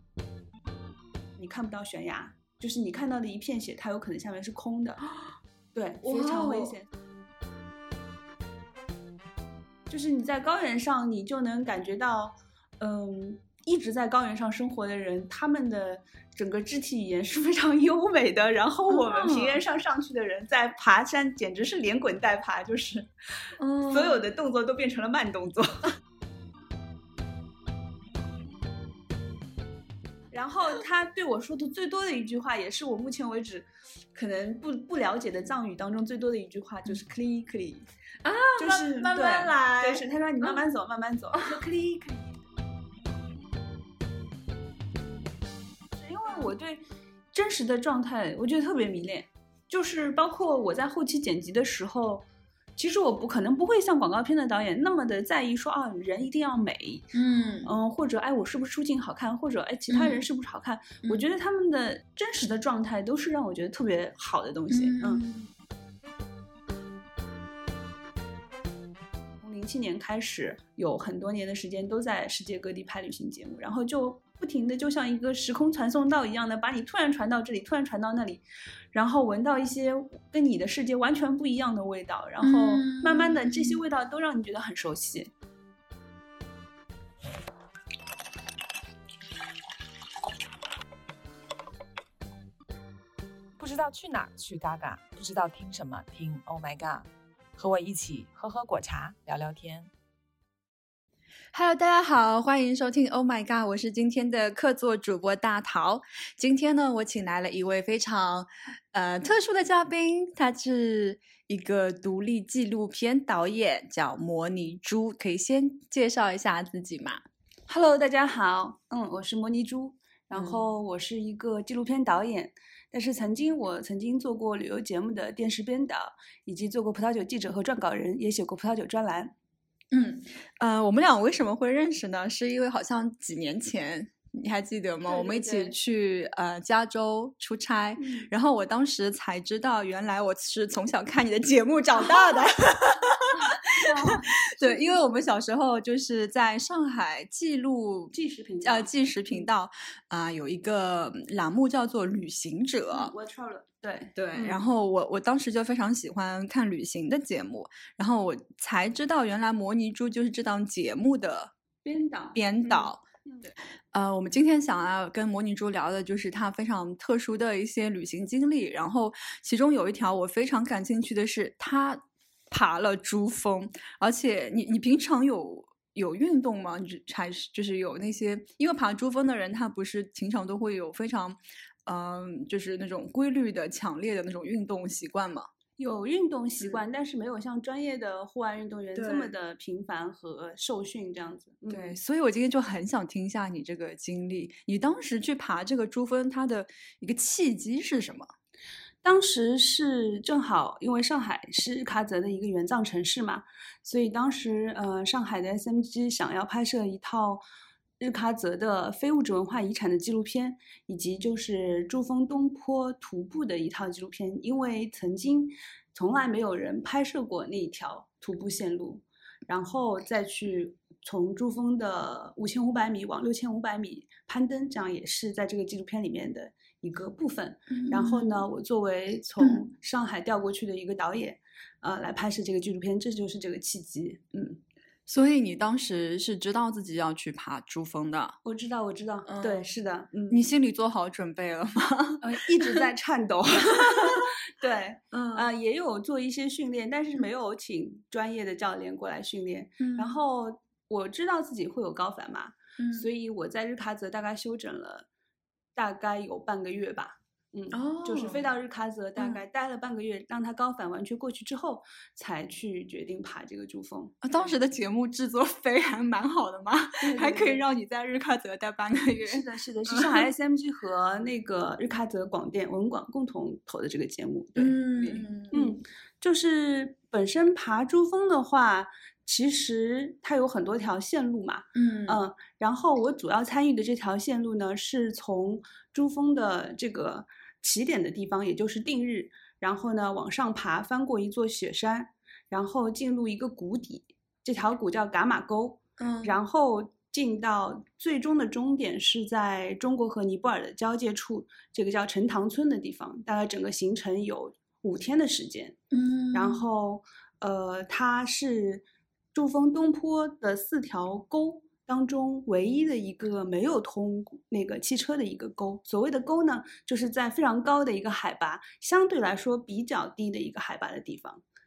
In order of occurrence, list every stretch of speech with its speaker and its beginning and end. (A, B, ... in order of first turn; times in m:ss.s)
0:01.4-0:05.0 A
0:05.8-0:06.9 A
0:06.0-0:06.8 B
0:09.9-0:25.9 A
0:18.9-0:19.6 B
0:23.6-0:24.3 B
0:30.3-0:37.9 A
0:38.2-0:40.6 B
0:38.6-0:42.4 A
0:41.3-0:41.6 B
0:46.0-0:52.3 A
0:52.8-0:57.1 A
0:57.1-0:57.7 B
0:57.6-1:05.2 A
0:59.9-1:00.2 B
1:04.7-1:05.5 B
1:09.4-1:25.3 A
1:22.4-1:23.8 B
1:33.6-1:39.9 C
1:41.5-1:57.2 B
1:57.7-2:09.3 A
2:00.3-2:00.6 B
2:09.9-2:33.1 B
2:15.1-2:15.7 A
2:18.0-2:18.3 A
2:23.4-2:25.0 A
2:28.1-2:29.5 A
2:32.9-2:34.6 A
2:34.2-2:41.5 B
2:41.8-2:43.5 A
2:42.3-2:43.0 B
2:43.9-3:05.5 B
3:05.8-3:12.0 A
3:09.0-3:09.3 B
3:11.7-3:18.3 B
3:19.0-3:27.4 A
3:28.0-3:54.6 A
3:47.7-3:48.5 B
3:49.4-3:49.7 B
3:55.1-3:58.4 B
3:58.4-4:00.4 A
3:59.3-3:59.7 B
4:00.3-4:02.8 B
4:02.2-4:15.1 A
4:03.7-4:04.2 B
4:05.1-4:05.5 B
4:09.8-4:10.2 B
4:12.8-4:13.1 B
4:15.8-4:24.5 A
4:17.7-4:18.4 B
4:24.2-4:30.3 B
4:27.0-4:27.6 A
4:29.2-5:05.8 A
4:34.6-4:35.8 B
4:41.8-4:42.2 B
4:56.0-4:56.4 B
5:05.9-5:06.6 B
5:06.3-5:21.4 A